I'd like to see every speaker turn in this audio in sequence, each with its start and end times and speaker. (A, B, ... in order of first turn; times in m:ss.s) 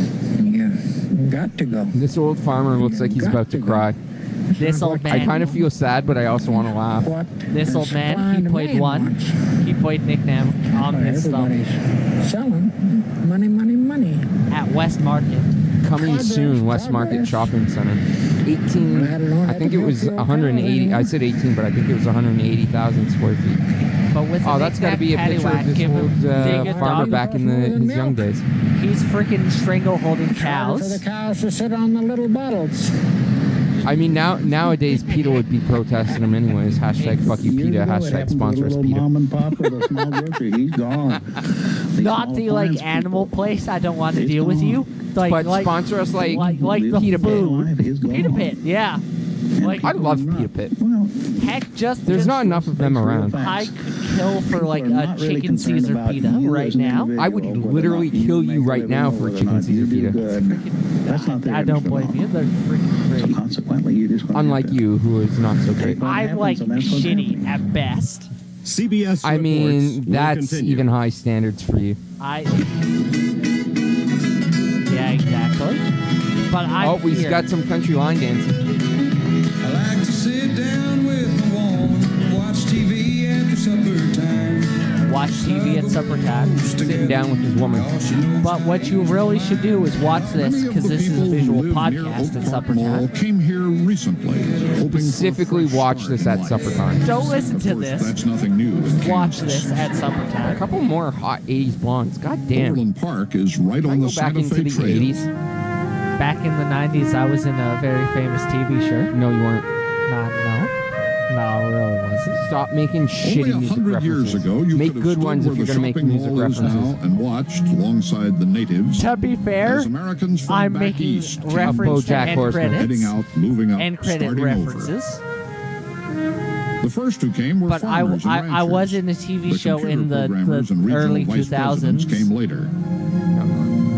0:00.4-0:02.0 A
0:01.9-0:04.0 B
0:02.8-0:03.9 A
0:04.5-0:05.7 A
0:04.6-0:05.5 C
0:05.1-0:07.1 B
0:06.5-0:09.4 A
0:07.5-0:11.6 C
0:10.7-0:14.3 A
0:14.5-0:15.5 C
0:15.8-0:23.6 B
0:16.0-0:17.5 A
0:18.8-0:21.1 A
0:24.1-0:27.2 C
0:24.4-0:28.4 B
0:26.3-0:28.3 A
0:28.8-0:31.0 C
0:30.3-0:32.9 A
0:33.8-0:39.1 B
0:34.6-0:35.4 A
0:37.3-0:43.4 D
0:42.0-0:49.0 C
0:44.2-0:44.8 D
0:45.2-0:47.5 B
0:46.2-0:48.5 D
0:49.6-0:51.5 D
0:49.6-0:49.9 C
0:49.8-0:50.7 B
0:51.4-0:57.1 C
0:52.0-0:53.4 B
0:52.2-0:53.8 D
0:54.5-1:02.3 D
0:57.2-1:00.2 B
1:00.3-1:03.4 C
1:03.1-1:04.8 D
1:04.3-1:06.0 B
1:05.7-1:07.6 D
1:06.0-1:08.3 C
1:08.7-1:10.8 E
1:09.2-1:12.0 B
1:12.2-1:12.6 C
1:14.9-1:15.8 C
1:16.5-1:17.4 C
1:16.8-1:18.6 B
1:19.6-1:24.7 F
1:25.1-1:26.6 C
1:25.3-1:30.4 F
1:26.8-1:27.9 B
1:28.4-1:33.1 C
1:30.4-1:39.9 G
1:34.4-1:34.8 F
1:34.8-1:37.1 B
1:37.0-1:38.2 C
1:38.9-1:40.6 C
1:40.5-1:42.8 B
1:42.5-1:45.3 G
1:43.8-1:45.3 B
1:46.2-1:49.1 C
1:49.1-1:49.6 B
1:50.1-1:50.7 C
1:51.3-1:52.4 C
1:52.4-1:57.0 B
1:53.2-1:59.1 G
1:59.0-1:59.9 C
1:59.6-2:05.0 G
2:00.5-2:03.2 C
2:01.6-2:02.9 B
2:03.8-2:05.2 C
2:06.8-2:12.7 G
2:07.7-2:12.3 C
2:13.4-2:13.7 B